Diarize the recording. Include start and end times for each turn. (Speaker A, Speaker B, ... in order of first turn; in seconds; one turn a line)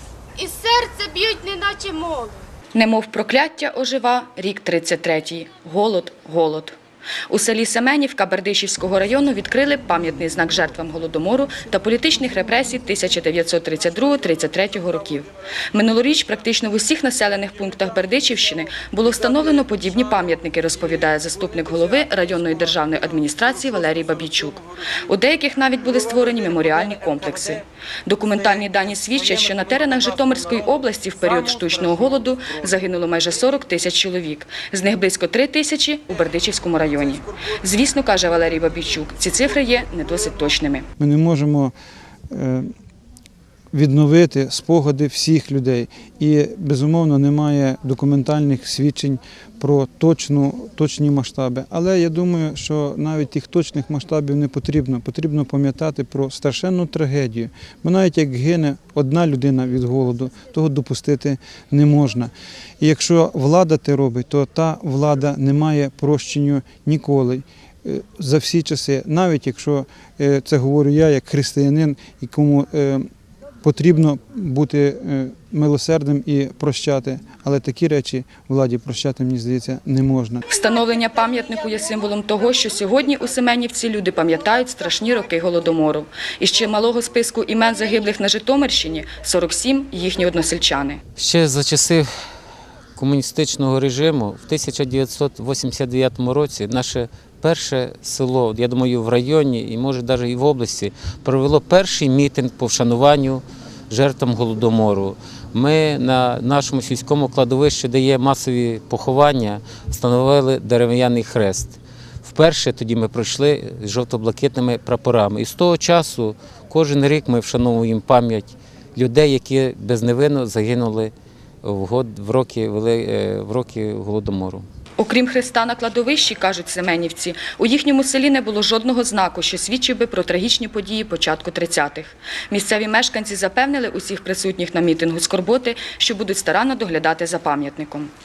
Speaker A: 0.3-2.4
Speaker B: 2.7-6.8
Speaker B: 7.3-40.9
Speaker C: 41.0-41.7
Speaker C: 42.3-42.7
Speaker C: 43.7-73.0
Speaker C: 73.6-80.4
Speaker B: 80.5-91.0
Speaker D: 91.2-92.1
Speaker D: 93.0-124.7
Speaker B: 125.0-138.1